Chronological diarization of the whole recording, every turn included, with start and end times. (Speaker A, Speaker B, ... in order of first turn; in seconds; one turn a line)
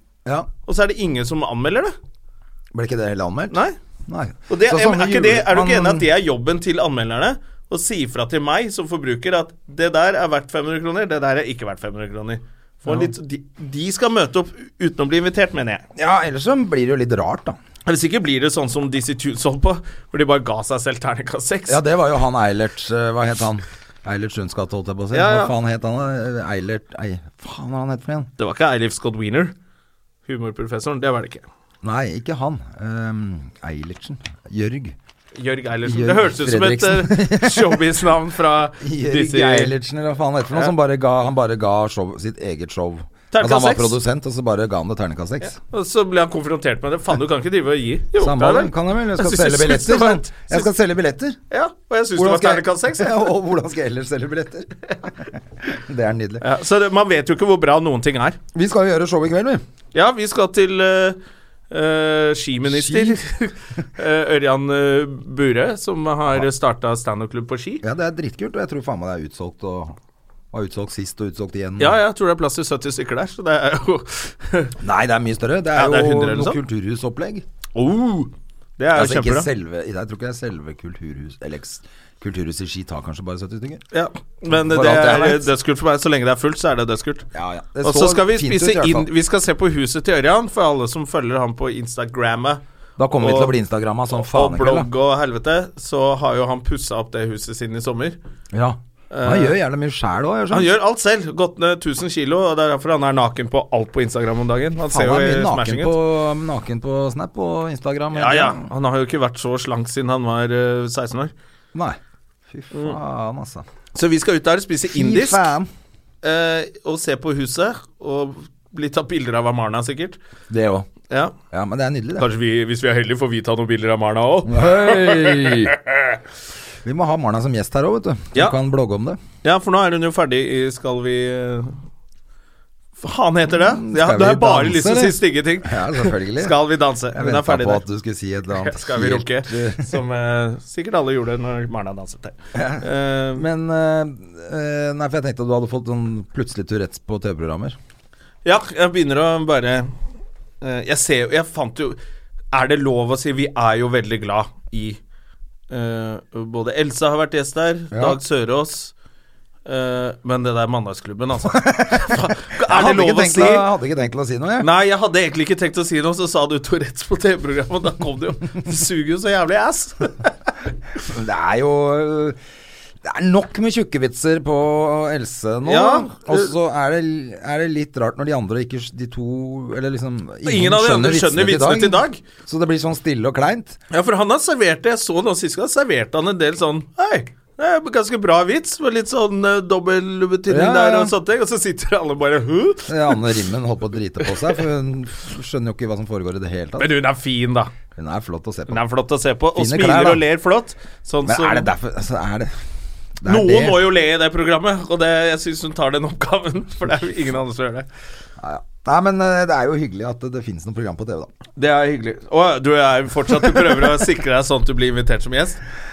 Speaker A: 0.7-1.9
Speaker B: 2.7-6.1
Speaker A: 3.5-3.8
Speaker A: 4.5-15.8
Speaker B: 12.8-13.1
Speaker B: 15.9-17.6
Speaker A: 17.9-21.8
Speaker B: 21.7-28.3
Speaker A: 25.1-25.5
Speaker A: 28.4-29.5
Speaker A: 30.2-31.4
Speaker B: 31.8-35.0
Speaker A: 35.3-39.7
Speaker B: 35.8-37.8
Speaker B: 38.8-45.5
Speaker A: 43.3-44.0
Speaker A: 45.4-50.7
Speaker B: 48.2-51.4
Speaker A: 51.5-53.3
Speaker B: 52.1-56.4
Speaker A: 56.4-58.4
Speaker B: 58.5-59.6
Speaker A: 59.9-61.2
Speaker A: 61.7-67.8
Speaker B: 62.7-63.2
Speaker B: 67.8-69.9
Speaker B: 70.5-72.0
Speaker A: 71.8-74.7
Speaker B: 74.8-77.4
Speaker A: 75.8-76.6
Speaker A: 77.7-79.5
Speaker B: 78.9-83.8
Speaker A: 83.9-87.3
Speaker B: 84.5-85.5
Speaker B: 87.3-89.1
Speaker A: 87.8-92.6
Speaker B: 93.0-94.9
Speaker A: 93.2-93.5
Speaker A: 94.1-98.2
Speaker B: 98.5-100.7
Speaker A: 99.1-99.5
Speaker A: 100.5-105.9
Speaker B: 104.9-108.6
Speaker A: 108.1-111.3
Speaker B: 111.7-112.0
Speaker B: 112.5-113.7
Speaker A: 112.7-113.0
Speaker A: 113.9-115.4
Speaker B: 114.9-115.7
Speaker A: 116.2-120.2
Speaker B: 120.5-120.9
Speaker A: 121.1-121.3
Speaker B: 121.5-122.2
Speaker A: 122.2-126.2
Speaker B: 124.4-125.7
Speaker B: 126.8-129.2
Speaker A: 129.4-131.8
Speaker A: 133.0-137.8
Speaker B: 133.5-136.6
Speaker B: 137.1-139.8
Speaker A: 138.5-143.4
Speaker B: 142.5-147.8
Speaker A: 148.4-149.9
Speaker A: 150.6-152.0
Speaker A: 152.5-155.0
Speaker A: 155.7-158.9
Speaker B: 157.9-158.2
Speaker A: 159.7-163.7
Speaker B: 161.5-164.7
Speaker A: 164.6-170.3
Speaker B: 171.0-172.4
Speaker B: 173.0-183.8
Speaker A: 175.6-176.5
Speaker A: 180.4-182.2
Speaker A: 183.9-193.2
Speaker B: 190.5-191.1
Speaker B: 192.9-196.9
Speaker A: 196.8-197.7
Speaker B: 197.9-198.8
Speaker A: 198.7-201.7
Speaker B: 199.5-200.2
Speaker B: 201.2-202.5
Speaker B: 203.2-203.9
Speaker A: 203.2-207.9
Speaker B: 208.4-211.3
Speaker A: 211.6-215.6